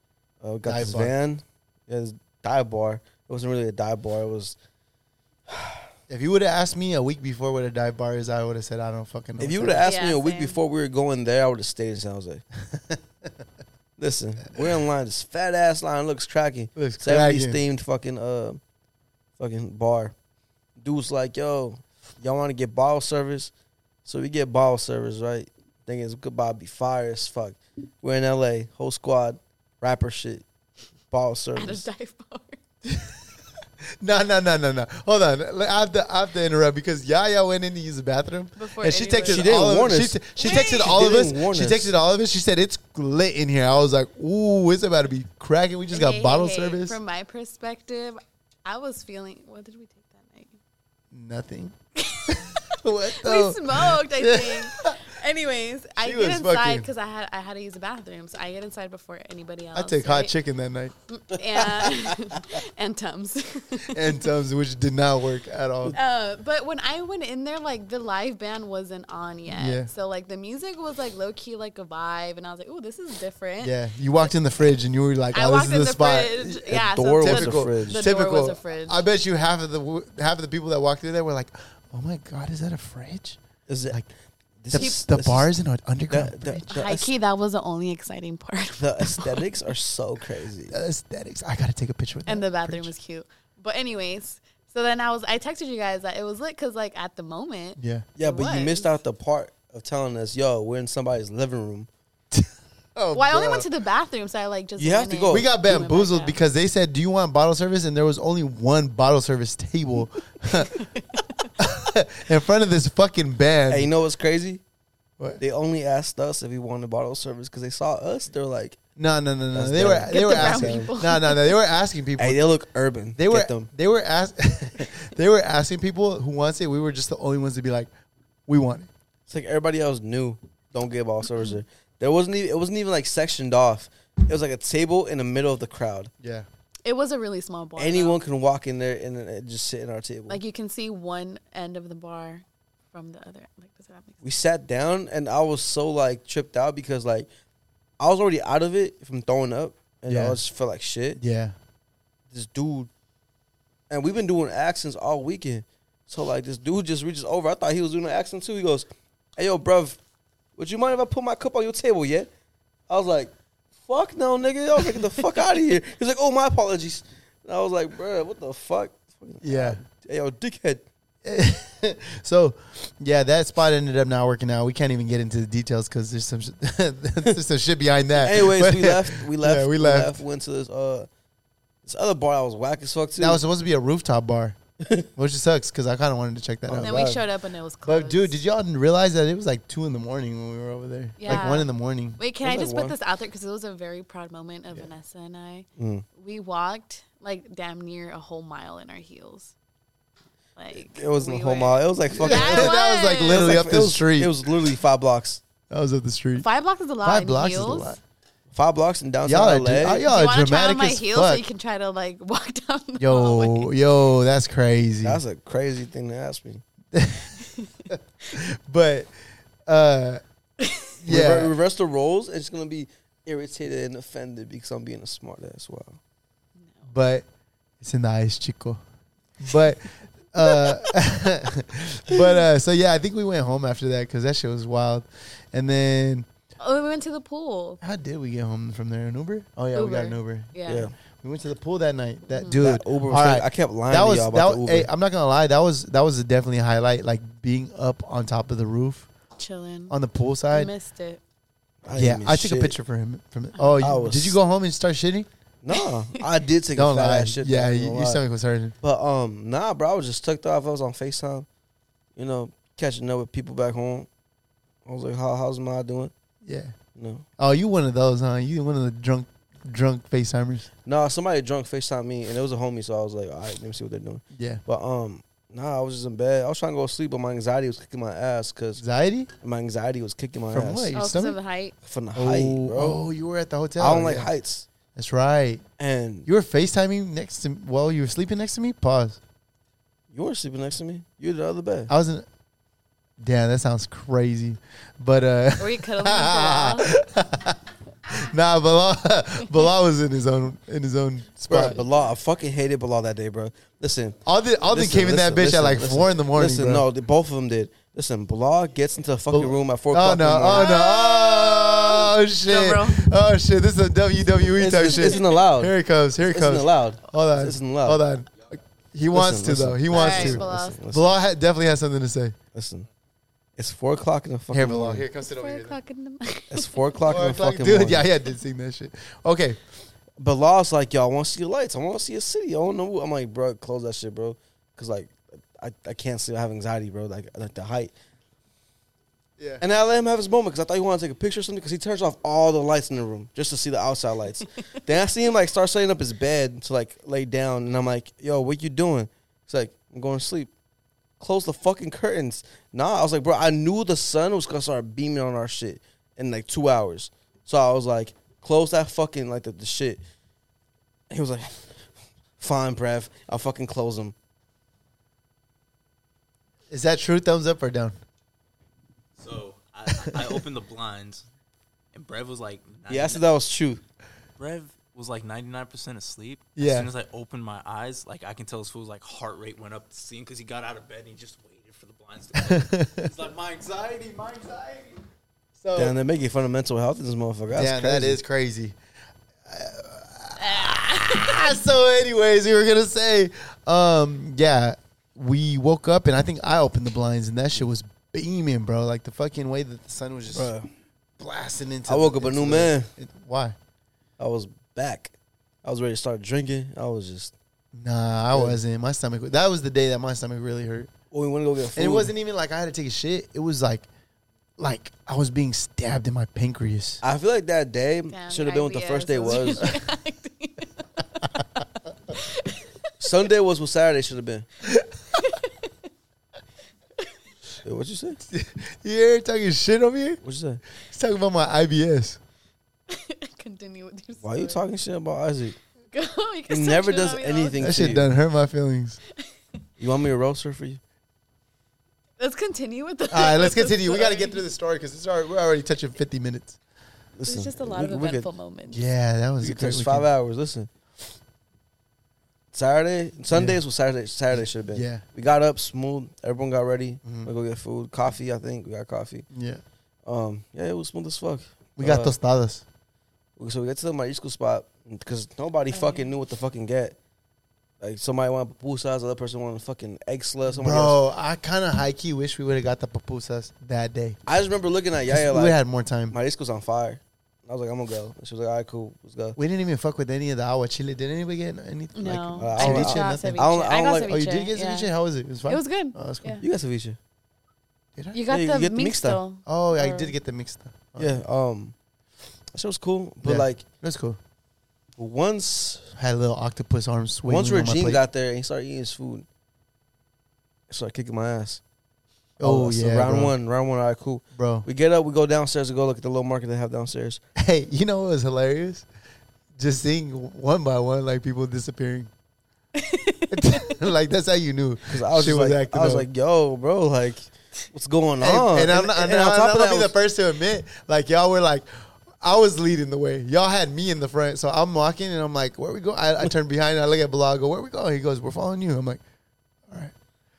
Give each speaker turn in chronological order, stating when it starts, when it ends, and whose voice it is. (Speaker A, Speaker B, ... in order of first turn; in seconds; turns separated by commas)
Speaker A: 0.4-4.6, Speaker B: 0.7-1.1, Speaker A: 5.5-5.8, Speaker B: 6.1-9.9, Speaker A: 9.4-12.4, Speaker C: 9.8-10.6, Speaker A: 14.0-18.6, Speaker B: 16.8-17.6, Speaker A: 19.4-20.1, Speaker A: 20.8-23.5, Speaker A: 24.1-30.4, Speaker A: 31.1-31.9, Speaker C: 31.6-32.6, Speaker B: 32.9-33.1, Speaker B: 34.0-47.0, Speaker C: 38.6-39.5, Speaker A: 39.2-41.9, Speaker C: 40.4-41.0, Speaker C: 45.9-50.6, Speaker B: 51.1-51.7, Speaker C: 52.0-60.3, Speaker B: 52.3-55.0, Speaker B: 56.0-56.9, Speaker B: 59.8-60.9, Speaker C: 61.1-64.2, Speaker A: 61.6-62.4, Speaker B: 63.9-66.0, Speaker C: 65.9-73.8, Speaker B: 69.5-69.9, Speaker B: 73.6-83.4, Speaker C: 75.3-79.0, Speaker A: 76.7-78.0, Speaker A: 83.7-84.0, Speaker A: 84.6-85.5, Speaker B: 84.7-86.8, Speaker C: 84.8-85.0, Speaker A: 86.1-87.1, Speaker C: 86.7-89.5, Speaker A: 88.8-90.7, Speaker B: 90.7-92.9, Speaker C: 92.3-98.9, Speaker B: 97.8-98.1, Speaker A: 98.2-101.9, Speaker B: 102.3-103.7, Speaker C: 103.1-106.4, Speaker A: 104.8-105.5, Speaker B: 105.3-110.8, Speaker C: 110.6-111.5, Speaker B: 111.6-113.9, Speaker A: 113.7-114.6, Speaker A: 115.4-118.8, Speaker B: 119.0-122.4, Speaker A: 119.5-120.9, Speaker C: 120.1-121.6, Speaker A: 122.2-123.7, Speaker B: 123.2-127.9, Speaker B: 128.5-128.9, Speaker A: 129.3-136.1, Speaker B: 136.2-136.5, Speaker C: 136.8-138.2, Speaker A: 137.8-140.4, Speaker C: 140.3-144.2, Speaker A: 144.2-147.3, Speaker A: 148.0-151.2, Speaker B: 150.1-150.4, Speaker B: 151.2-151.6, Speaker A: 152.3-152.9, Speaker A: 153.9-160.0, Speaker A: 160.6-162.3, Speaker A: 162.9-163.3, Speaker A: 163.8-170.8, Speaker B: 169.4-169.8, Speaker B: 171.2-180.2, Speaker A: 178.2-181.1, Speaker A: 181.8-183.4, Speaker B: 183.2-184.6, Speaker A: 184.8-185.1, Speaker B: 185.2-187.1, Speaker A: 186.7-187.2, Speaker C: 186.8-188.4, Speaker B: 187.8-192.2, Speaker C: 191.2-195.7, Speaker A: 192.4-192.9, Speaker A: 195.8-196.1, Speaker C: 196.2-199.5, Speaker C: 200.6-203.6, Speaker A: 200.7-205.4, Speaker B: 202.2-204.3, Speaker B: 205.7-206.5, Speaker C: 206.4-208.0, Speaker B: 207.0-208.0, Speaker A: 208.5-210.1, Speaker B: 209.3-211.4, Speaker C: 210.1-213.7, Speaker B: 213.0-215.2, Speaker A: 215.0-216.6, Speaker B: 216.9-219.1, Speaker B: 219.7-220.2, Speaker C: 220.6-220.9, Speaker B: 221.0-221.5, Speaker A: 221.1-226.0, Speaker B: 226.9-227.2, Speaker B: 227.8-228.8, Speaker B: 229.4-236.3, Speaker C: 236.6-237.8, Speaker B: 237.8-240.5, Speaker C: 239.8-240.9, Speaker A: 240.7-240.9, Speaker B: 241.2-249.1, Speaker C: 242.3-242.6, Speaker A: 242.6-244.9, Speaker C: 249.4-249.9, Speaker B: 249.9-250.7, Speaker C: 250.5-251.2, Speaker A: 251.8-252.8, Speaker B: 251.9-255.3, Speaker A: 253.8-254.4, Speaker A: 255.6-258.2, Speaker C: 255.7-256.2, Speaker B: 256.8-258.7, Speaker A: 258.8-261.5, Speaker A: 262.2-264.1, Speaker A: 264.9-266.1, Speaker B: 266.4-266.8, Speaker A: 266.9-267.3, Speaker B: 267.4-270.7, Speaker A: 270.9-278.8, Speaker B: 274.3-274.6, Speaker B: 278.8-279.3, Speaker A: 279.4-280.9, Speaker B: 280.5-281.4, Speaker C: 280.9-281.8, Speaker A: 281.8-283.0, Speaker B: 282.1-284.3, Speaker A: 283.8-284.7, Speaker B: 284.9-285.6, Speaker A: 285.8-286.3, Speaker B: 286.2-289.2, Speaker A: 290.1-291.9, Speaker B: 291.9-292.3, Speaker B: 293.2-297.6, Speaker C: 295.6-296.9, Speaker B: 298.1-301.8, Speaker A: 301.5-304.2, Speaker B: 304.2-306.9, Speaker A: 304.7-310.7, Speaker B: 309.3-322.4, Speaker C: 310.5-313.1, Speaker A: 314.6-315.7, Speaker A: 316.2-318.0, Speaker A: 319.1-321.2, Speaker C: 319.9-320.8, Speaker A: 322.5-322.9, Speaker A: 323.6-325.1, Speaker B: 324.5-325.8, Speaker C: 325.2-327.0, Speaker A: 326.5-328.1, Speaker B: 327.1-329.6, Speaker A: 330.2-337.9, Speaker A: 339.6-350.5, Speaker A: 351.2-360.0, Speaker A: 361.1-361.7, Speaker A: 362.4-364.1, Speaker B: 366.7-368.0, Speaker D: 369.2-371.2, Speaker D: 371.9-373.3, Speaker A: 372.9-373.8, Speaker D: 374.4-385.0, Speaker B: 376.6-376.9, Speaker B: 382.4-383.1, Speaker B: 385.6-385.9, Speaker A: 385.8-388.2, Speaker B: 387.5-388.8, Speaker B: 389.5-400.5, Speaker C: 390.4-391.5, Speaker A: 400.3-400.7, Speaker B: 401.2-403.6, Speaker A: 401.9-402.9, Speaker A: 404.2-407.3, Speaker B: 407.7-410.9, Speaker A: 408.3-408.6, Speaker A: 411.1-412.1, Speaker B: 411.8-413.9, Speaker B: 414.6-417.0, Speaker A: 417.0-419.7, Speaker C: 418.1-422.6, Speaker A: 423.0-424.5, Speaker C: 425.2-425.6, Speaker A: 427.6-428.2, Speaker B: 428.3-430.2, Speaker A: 430.2-430.6, Speaker B: 430.8-432.2, Speaker C: 432.9-434.6, Speaker A: 434.2-435.6, Speaker C: 435.9-437.9, Speaker A: 436.5-438.1, Speaker B: 437.6-439.0, Speaker A: 439.8-440.8, Speaker C: 442.2-444.4, Speaker B: 443.1-446.6, Speaker A: 447.1-448.3, Speaker C: 447.3-448.9, Speaker B: 448.7-450.1, Speaker A: 449.4-450.7, Speaker A: 452.5-459.3, Speaker B: 453.3-453.6, Speaker B: 454.3-455.0, Speaker B: 457.0-457.3, Speaker B: 459.3-459.6, Speaker A: 460.1-462.2, Speaker B: 461.8-462.6, Speaker A: 463.4-467.0, Speaker C: 465.7-466.1, Speaker A: 467.8-471.0, Speaker B: 470.5-474.2, Speaker A: 474.3-475.6, Speaker B: 475.1-476.1, Speaker A: 476.1-479.4, Speaker B: 479.4-486.4, Speaker C: 482.0-484.9, Speaker A: 482.4-484.2, Speaker C: 485.5-486.4, Speaker A: 486.4-487.0, Speaker C: 488.1-490.1, Speaker A: 488.3-489.2, Speaker B: 489.5-491.2, Speaker A: 491.0-491.8, Speaker A: 492.5-493.6, Speaker B: 493.2-494.2, Speaker A: 495.0-495.9, Speaker B: 495.9-498.0, Speaker A: 497.3-499.3, Speaker A: 500.7-501.6, Speaker A: 502.4-507.2, Speaker B: 502.4-503.3, Speaker B: 504.4-504.7, Speaker B: 507.4-508.9, Speaker B: 509.6-512.1, Speaker C: 512.8-513.7, Speaker B: 513.3-516.1, Speaker A: 514.9-520.0, Speaker B: 518.2-521.7, Speaker B: 522.2-529.0